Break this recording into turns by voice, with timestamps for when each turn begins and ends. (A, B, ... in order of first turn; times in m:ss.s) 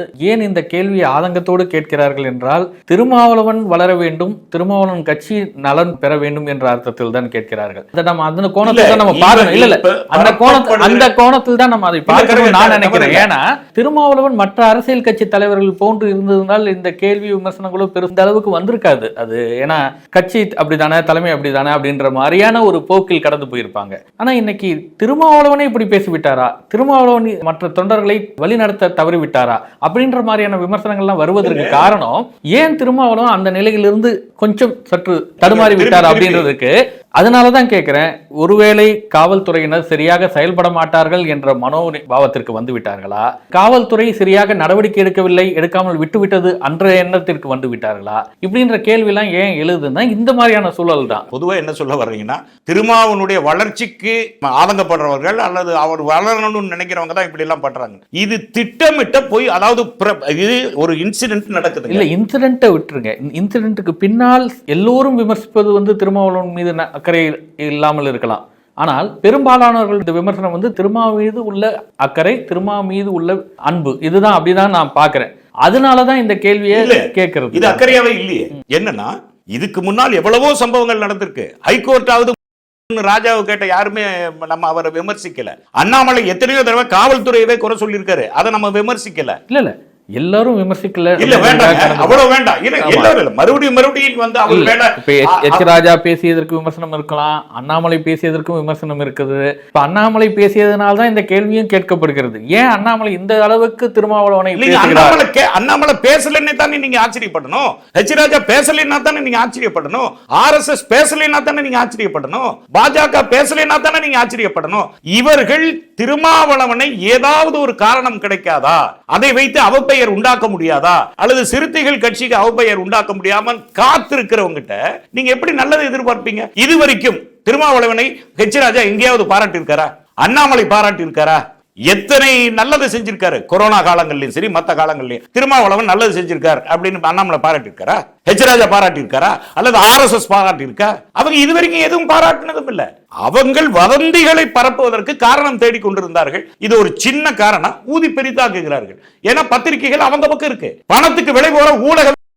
0:00.3-0:51.2 A
0:08.6-0:11.1 B
0:12.1-0:13.3 B
0:31.4-0:31.9 B
0:35.4-0:36.5 B
0:51.3-1:02.1 B
1:01.9-1:17.9 A
1:16.7-1:22.4 B
1:22.9-1:29.4 B
1:29.5-1:32.2 A
1:31.2-1:35.7 B
1:32.8-1:33.1 A
1:34.5-1:45.2 A
1:44.6-2:32.2 B